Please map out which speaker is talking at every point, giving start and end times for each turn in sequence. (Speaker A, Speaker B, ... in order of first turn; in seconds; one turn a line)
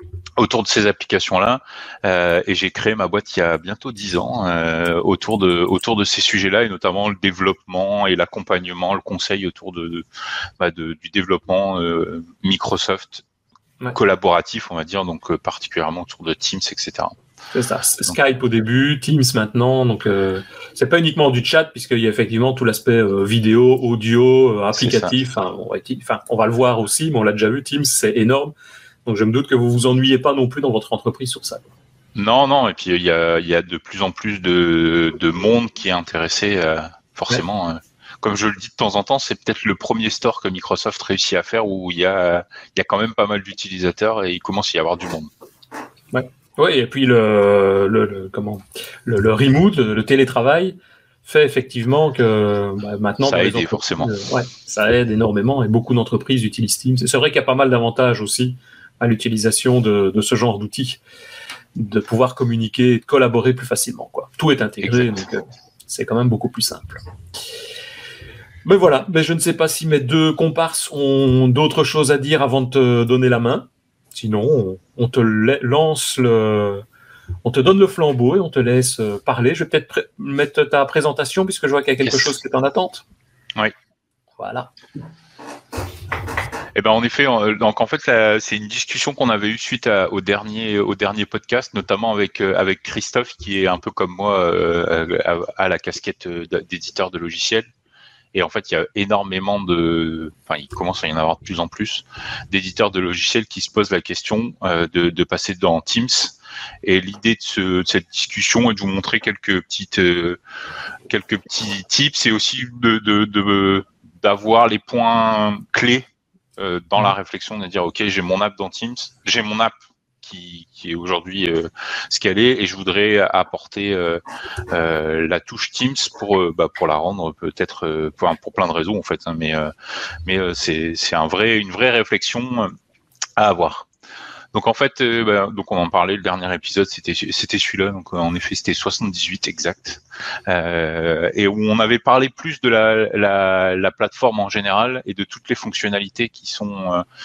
Speaker A: 0.4-10.1
Speaker A: 10.6-13.2
Speaker A: 13.9-17.1
Speaker B: 17.5-31.7
Speaker A: 24.7-25.1
Speaker A: 32.2-45.3
Speaker B: 46.1-61.0
Speaker A: 53.2-54.1
Speaker B: 61.8-67.0
Speaker A: 64.8-65.3
Speaker B: 68.6-76.8
Speaker B: 77.4-83.0
Speaker A: 82.0-82.3
Speaker B: 84.4-84.7
Speaker A: 86.8-97.7
Speaker A: 98.3-110.4
Speaker A: 111.1-116.1
Speaker A: 116.6-129.7
Speaker A: 130.3-132.8
Speaker A: 133.4-133.9
Speaker A: 134.5-147.0